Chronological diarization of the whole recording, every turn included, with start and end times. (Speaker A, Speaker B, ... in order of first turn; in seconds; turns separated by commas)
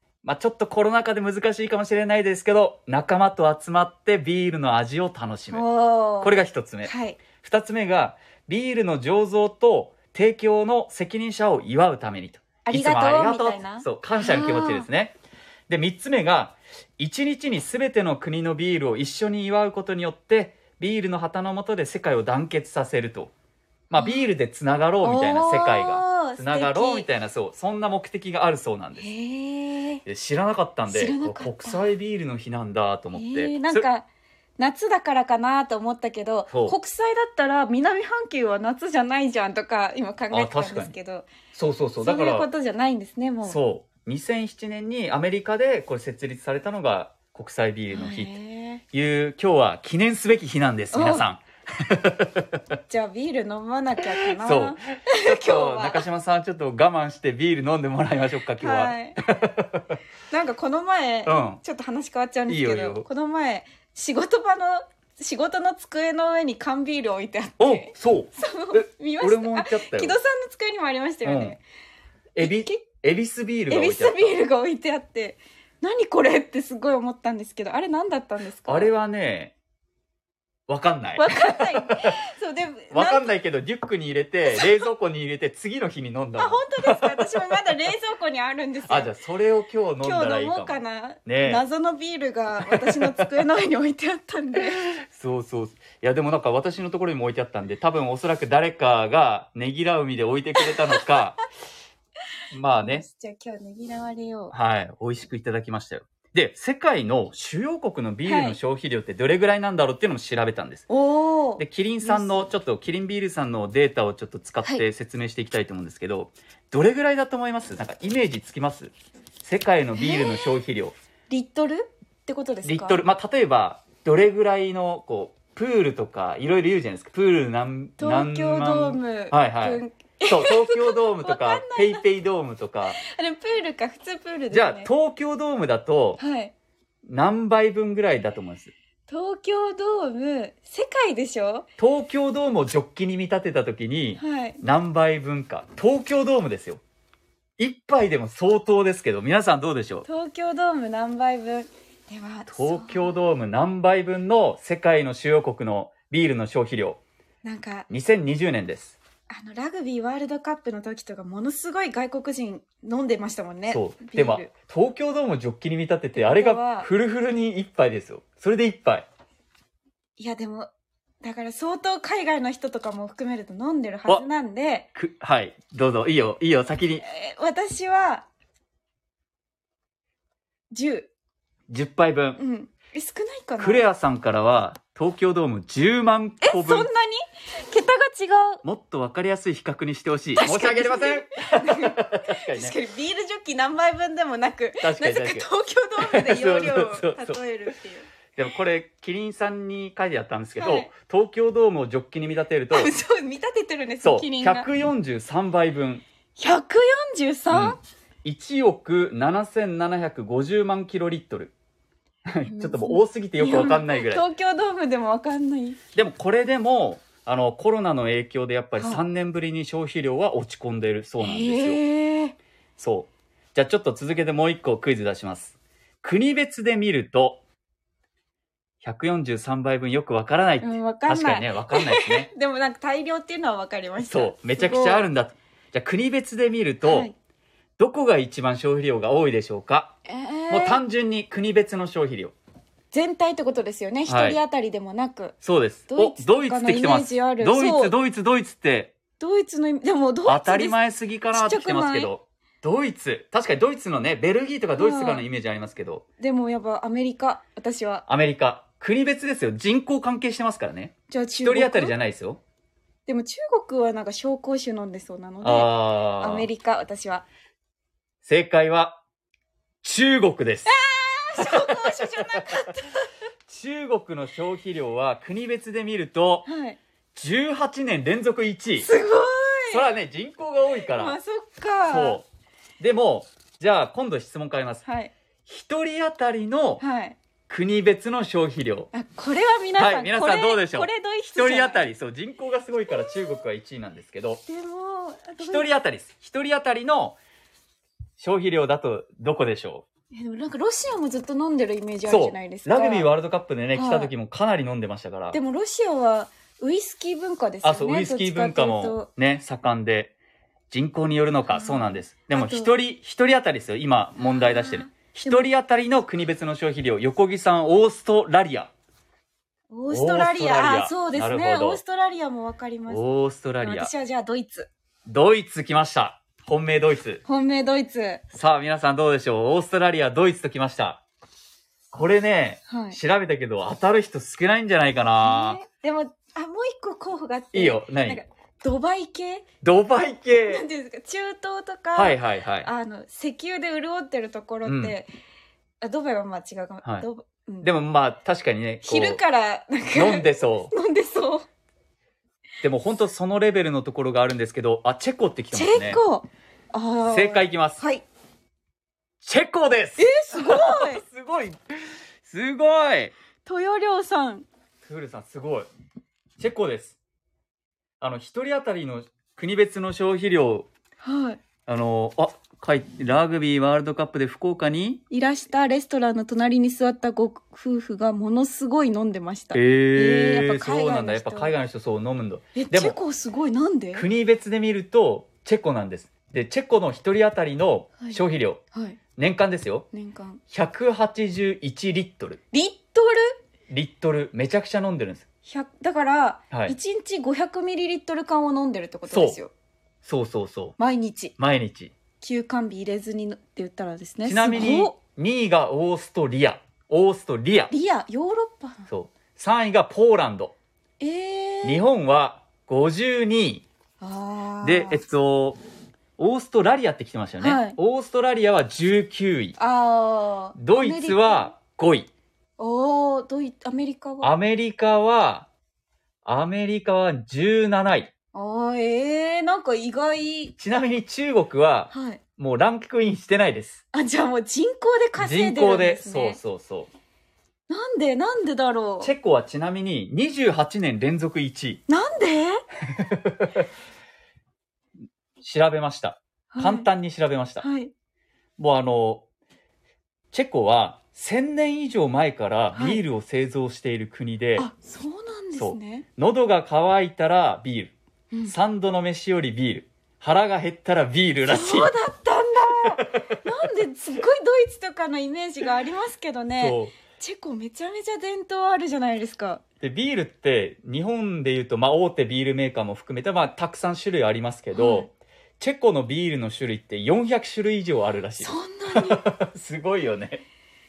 Speaker A: 0.2-5.7, Speaker B: 5.5-7.2, Speaker A: 6.2-15.2, Speaker B: 12.7-14.9, Speaker A: 15.7-23.3, Speaker A: 23.9-29.1, Speaker B: 23.9-24.3, Speaker B: 25.0-27.1, Speaker B: 29.0-30.0, Speaker A: 30.1-33.9, Speaker B: 30.9-31.8, Speaker B: 33.1-34.1, Speaker B: 34.6-41.3, Speaker A: 36.5-36.8, Speaker A: 40.3-40.9, Speaker A: 41.5-42.5, Speaker B: 42.0-43.6, Speaker A: 43.5-48.4, Speaker B: 47.9-48.8, Speaker A: 48.9-52.4, Speaker B: 50.9-51.3, Speaker B: 52.9-56.0, Speaker A: 54.4-59.8, Speaker B: 58.6-59.3, Speaker B: 60.3-71.6, Speaker A: 61.3-61.6, Speaker A: 62.5-63.1, Speaker A: 67.6-70.2, Speaker A: 71.2-71.6, Speaker A: 72.3-74.4, Speaker B: 72.4-72.8, Speaker B: 73.7-78.9, Speaker A: 78.7-79.5, Speaker A: 80.7-81.3, Speaker B: 81.2-83.4, Speaker A: 82.9-87.3, Speaker B: 86.4-89.1, Speaker A: 88.9-91.6, Speaker B: 90.0-94.8, Speaker A: 94.9-101.4, Speaker A: 102.5-103.0, Speaker B: 102.8-104.5, Speaker A: 104.5-110.9, Speaker B: 108.2-108.6, Speaker B: 110.9-112.5, Speaker A: 111.6-118.9, Speaker A: 119.4-121.0, Speaker B: 120.0-120.5, Speaker B: 121.3-123.0, Speaker A: 122.7-133.0, Speaker B: 128.0-132.1, Speaker B: 132.9-134.9, Speaker A: 134.5-136.2, Speaker B: 136.2-136.5, Speaker A: 137.1-138.7, Speaker B: 139.1-141.7, Speaker A: 141.8-146.8, Speaker B: 144.2-144.6, Speaker A: 147.6-150.1, Speaker B: 150.1-153.2, Speaker A: 152.5-157.0, Speaker B: 157.4-157.9, Speaker A: 157.9-159.0, Speaker B: 159.3-164.5, Speaker A: 163.7-169.1, Speaker B: 166.1-166.9, Speaker B: 170.2-170.7, Speaker B: 171.2-174.9, Speaker A: 174.9-177.1, Speaker B: 177.0-178.3, Speaker B: 180.7-181.1, Speaker A: 181.7-182.4, Speaker B: 182.4-183.8, Speaker A: 183.6-186.9, Speaker B: 186.4-188.6, Speaker A: 188.6-192.8, Speaker B: 190.3-198.1, Speaker A: 194.8-195.5, Speaker A: 196.0-197.4, Speaker A: 198.4-203.0, Speaker B: 200.6-200.9, Speaker B: 202.7-204.7, Speaker A: 204.0-206.0, Speaker B: 206.4-207.8, Speaker A: 207.5-211.5, Speaker A: 212.3-214.2, Speaker B: 212.4-215.8, Speaker A: 215.9-221.8, Speaker B: 221.2-222.4, Speaker A: 222.8-227.4, Speaker A: 228.8-232.3, Speaker B: 230.6-235.1, Speaker A: 234.0-237.1, Speaker B: 236.8-237.1, Speaker A: 237.8-239.9, Speaker B: 240.1-240.8, Speaker A: 240.5-242.3, Speaker B: 242.9-245.4, Speaker A: 244.1-244.4, Speaker A: 245.4-248.9, Speaker B: 245.9-247.9, Speaker B: 249.2-250.8, Speaker A: 250.3-256.0, Speaker B: 251.3-252.1, Speaker B: 254.8-255.3, Speaker B: 256.2-258.1, Speaker A: 258.1-262.4, Speaker B: 261.1-261.9, Speaker B: 263.1-267.2, Speaker A: 265.4-266.5, Speaker A: 268.2-269.0, Speaker A: 269.8-270.7, Speaker B: 270.7-273.1, Speaker A: 271.4-271.7, Speaker A: 273.5-276.5, Speaker B: 276.5-276.8, Speaker A: 277.1-278.9, Speaker B: 278.8-279.9, Speaker A: 279.7-281.2, Speaker B: 280.7-282.2, Speaker A: 281.9-282.3, Speaker A: 282.8-284.8, Speaker B: 284.9-285.1, Speaker A: 285.5-286.8, Speaker B: 286.8-287.2, Speaker A: 287.5-288.9, Speaker B: 288.9-291.9, Speaker A: 289.8-294.4, Speaker B: 292.9-293.4, Speaker B: 294.5-295.7, Speaker A: 295.4-297.2, Speaker A: 298.2-299.9, Speaker B: 300.1-303.1, Speaker A: 302.1-305.4, Speaker B: 303.7-304.1, Speaker B: 305.3-309.1, Speaker A: 307.6-310.1, Speaker A: 310.7-318.7, Speaker B: 311.5-312.7, Speaker B: 314.2-315.5, Speaker B: 319.7-323.0, Speaker A: 319.9-321.8, Speaker A: 322.9-323.9, Speaker B: 323.6-324.7, Speaker A: 325.1-327.2, Speaker B: 327.3-328.2, Speaker A: 328.3-331.0, Speaker A: 331.9-335.6, Speaker B: 332.7-333.0, Speaker B: 335.2-339.5, Speaker A: 337.5-338.2, Speaker A: 339.6-340.6, Speaker B: 340.4-345.1, Speaker A: 341.9-342.7, Speaker A: 344.6-345.0, Speaker B: 345.8-347.7, Speaker A: 347.6-349.2, Speaker B: 348.8-351.5, Speaker A: 349.9-350.7, Speaker A: 352.6-356.0, Speaker B: 355.5-358.1, Speaker A: 357.1-357.8, Speaker A: 359.2-361.6, Speaker B: 360.0-361.0, Speaker A: 362.2-363.1, Speaker B: 363.4-364.5, Speaker A: 364.9-365.7, Speaker A: 366.4-367.0, Speaker A: 368.0-370.7, Speaker B: 371.0-371.4, Speaker A: 371.7-375.0, Speaker B: 375.1-381.5, Speaker A: 379.5-383.0, Speaker B: 382.6-384.1, Speaker A: 383.9-388.6, Speaker B: 388.7-389.0, Speaker A: 389.2-389.9, Speaker B: 389.9-390.4, Speaker A: 390.5-392.4, Speaker B: 392.5-393.4, Speaker A: 393.7-395.2, Speaker B: 395.4-399.5, Speaker A: 399.1-399.4, Speaker A: 400.0-400.8, Speaker B: 400.8-401.4, Speaker A: 401.4-401.9, Speaker B: 402.2-404.9, Speaker A: 404.2-407.7, Speaker B: 407.7-408.9, Speaker A: 408.9-410.5, Speaker B: 411.0-411.8, Speaker A: 411.6-413.6, Speaker B: 414.0-415.0, Speaker A: 414.6-415.6, Speaker A: 416.2-419.6, Speaker B: 417.4-417.8, Speaker B: 419.6-421.5, Speaker A: 420.6-422.1, Speaker B: 422.6-424.3, Speaker A: 424.2-425.5, Speaker A: 426.2-428.1, Speaker B: 428.3-430.6, Speaker A: 430.6-433.8, Speaker B: 431.9-432.2, Speaker B: 433.9-436.4, Speaker A: 435.2-436.9, Speaker B: 437.7-439.1, Speaker A: 439.0-441.8, Speaker B: 441.9-442.6, Speaker A: 442.9-443.5, Speaker A: 445.4-447.6, Speaker B: 446.5-446.9, Speaker B: 447.6-447.9, Speaker A: 448.6-449.2, Speaker A: 450.3-454.7, Speaker B: 452.8-453.0, Speaker B: 454.6-456.1, Speaker A: 455.6-457.9, Speaker A: 458.5-461.9, Speaker B: 461.4-469.6, Speaker A: 466.6-466.9, Speaker A: 469.8-480.4, Speaker B: 474.8-475.1, Speaker B: 478.4-479.2